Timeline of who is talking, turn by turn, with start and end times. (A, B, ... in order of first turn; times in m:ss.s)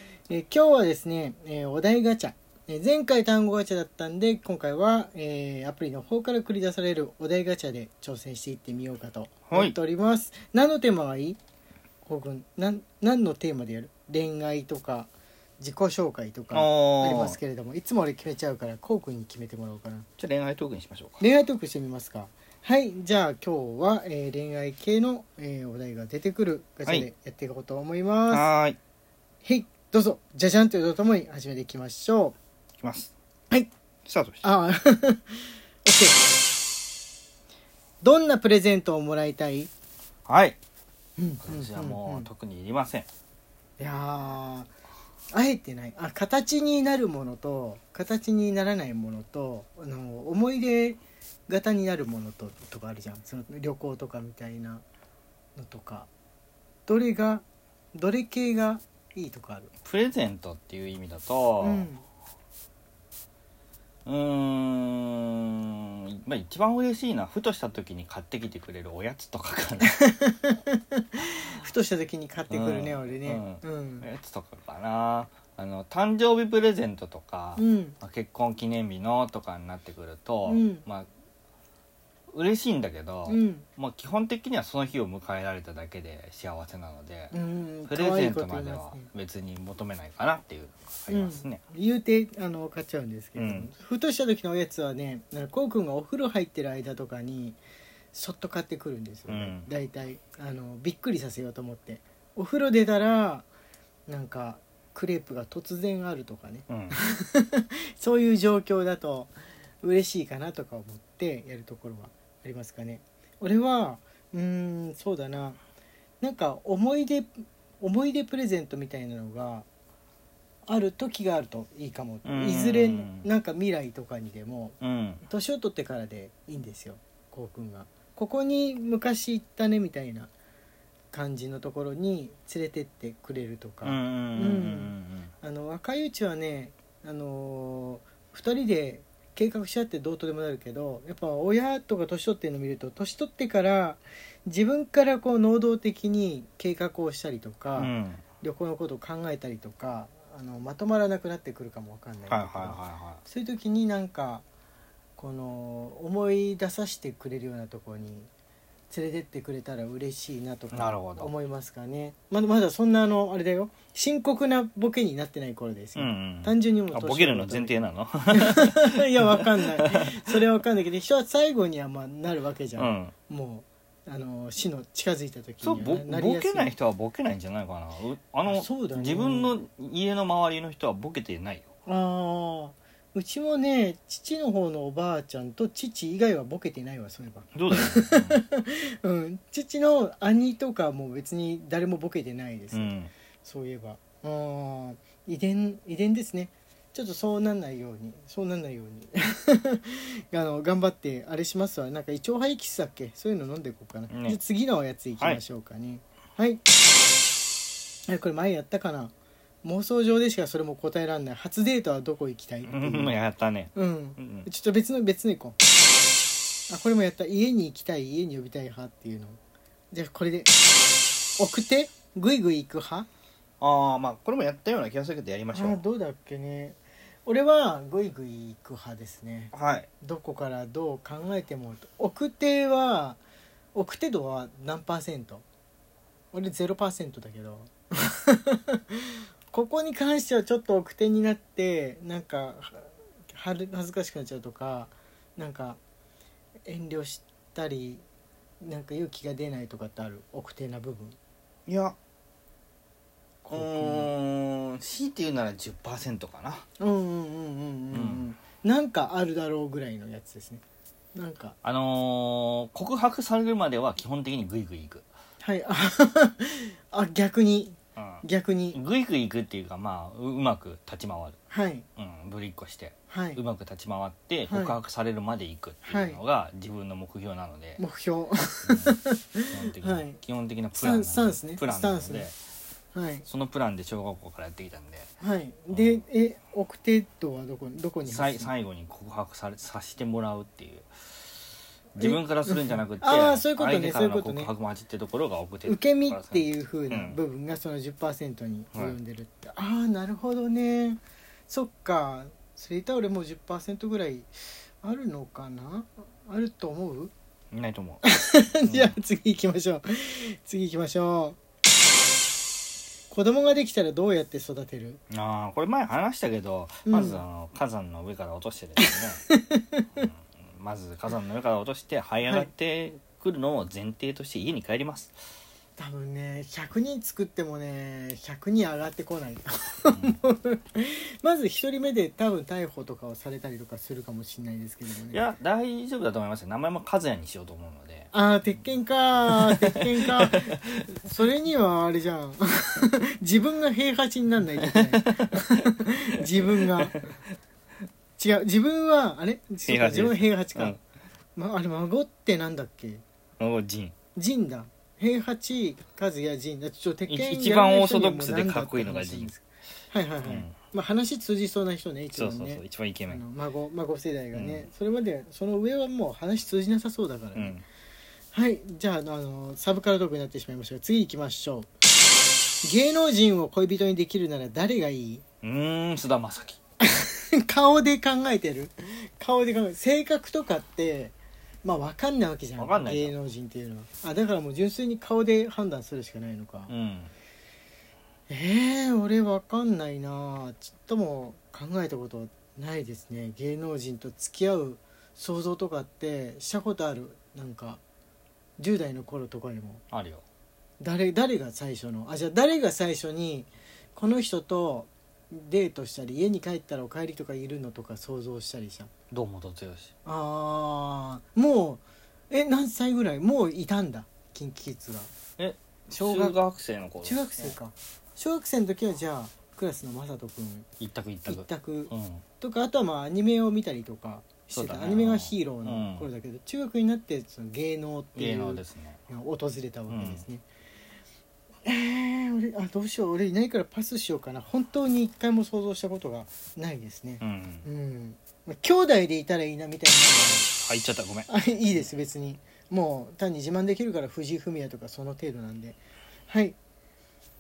0:00.3-0:11.4 A
0:09.5-0:09.8 B
0:12.0-0:20.1 A
0:16.5-0:17.4 B
0:20.2-0:21.2 B
0:21.2-0:28.5 A
0:28.3-0:28.8 B
0:29.4-0:32.4 A
0:32.8-0:33.1 B
0:34.1-0:34.4 B
0:34.4-0:36.2 A
0:38.0-0:39.7 A
0:40.3-0:40.6 B
0:41.2-0:42.3 A
0:41.4-0:43.1 B
0:43.8-0:44.7 A
0:45.3-0:54.8 A
0:55.6-0:56.1 A
0:56.9-0:59.7 A
0:59.8-1:01.9 B
1:01.6-1:02.0 A
1:04.1-1:10.0 B
1:09.9-1:14.1 A
1:12.5-1:21.1 B
1:17.6-1:18.0 A
1:20.5-1:20.8 A
1:22.3-1:27.3 B
1:23.3-1:23.7 A
1:27.3-1:29.1 A
1:27.9-1:31.6 B
1:31.1-1:37.6 A
1:33.4-1:33.7 B
1:38.1-1:43.5 A
1:39.3-1:39.7 B
1:44.1-1:55.6 A
1:46.7-1:47.0 B
1:56.2-1:59.7 A
2:00.7-2:10.3 A
2:02.2-2:03.3 B
2:04.8-2:05.2 B
2:11.1-2:34.4 A
2:13.8-2:15.3 B
2:27.8-2:28.2 B
2:32.3-2:33.2 B
2:35.2-2:38.3 A
2:38.9-2:47.8 A
2:40.7-2:41.3 B
2:46.0-2:50.4 B
2:48.3-2:56.7 A
2:52.8-2:53.1 B
2:55.6-3:01.7 B
2:58.5-2:59.5 A
3:01.9-3:26.6 A
3:07.5-3:08.4 B
3:12.7-3:13.1 B
3:24.1-3:24.4 B
3:28.1-3:33.2 A
3:32.6-3:34.5 B
3:33.8-3:35.6 A
3:36.7-3:39.4 A
3:39.9-3:40.5 A
3:41.4-3:43.1 A
3:43.6-3:45.8 B
3:45.5-3:53.2 A
3:49.5-3:49.9 B
3:53.7-3:55.4 A
3:56.3-4:05.8 A
4:06.7-4:08.0 A
4:08.6-4:11.2 A
4:11.7-4:12.0 B
4:13.4-4:14.1 A
4:13.5-4:16.6 B
4:16.8-4:20.6 A
4:17.9-4:18.3 B
4:21.2-4:21.6 A
4:21.6-4:25.0 B
4:25.4-4:28.8 A
4:28.0-4:31.4 B
4:31.5-4:31.9 A
4:32.0-4:37.8 B
4:33.1-4:33.4 A
4:34.5-4:34.8 A
4:35.9-4:36.2 A
4:37.8-4:40.2 A
4:38.6-4:39.0 B
4:39.5-4:42.4 B
4:40.8-4:42.3 A
4:42.9-4:43.3 A
4:43.3-4:45.1 B
4:45.2-4:48.5 A
4:45.7-4:46.0 B
4:48.0-4:50.9 B
4:52.0-4:57.2 B
4:52.0-4:54.5 A
4:55.7-5:07.1 A
5:07.5-5:09.0 B
5:08.0-5:11.4 A
5:13.1-5:15.0 A
5:15.1-5:19.2 B
5:16.9-5:17.2 A
5:18.8-5:20.0 A
5:20.0-5:25.2 B
5:25.8-5:35.2 A
5:29.9-5:30.2 B
5:35.1-5:38.1 B
5:38.1-5:47.0 A
5:39.3-5:40.8 B
5:44.6-5:45.6 B
5:46.4-5:47.1 B
5:48.2-5:50.8 A
5:49.7-5:50.8 B
5:51.4-5:53.0 A
5:53.4-5:54.0 B
5:54.2-6:07.6 A
5:57.1-5:59.3 B
6:00.2-6:00.6 B
6:02.1-6:03.2 B
6:04.3-6:04.7 B
6:07.4-6:07.6 B
6:08.3-6:11.7 A
6:12.6-6:15.2 A
6:15.4-6:16.6 B
6:16.8-6:26.7 A
6:22.6-6:23.2 B
6:26.7-6:27.1 B
6:28.3-6:37.8 A
6:38.6-6:39.8 A
6:39.9-6:40.2 B
6:40.8-6:48.9 A
6:49.1-6:49.9 B
6:50.0-6:55.1 A
6:55.4-6:57.6 B
6:56.0-6:56.4 A
6:57.0-7:00.7 A
7:00.8-7:02.2 B
7:01.3-7:10.4 A
7:04.5-7:06.1 B
7:08.2-7:09.0 B
7:09.9-7:10.2 B
7:11.6-7:20.5 A
7:17.2-7:17.7 B
7:20.6-7:21.3 B
7:21.3-7:26.6 A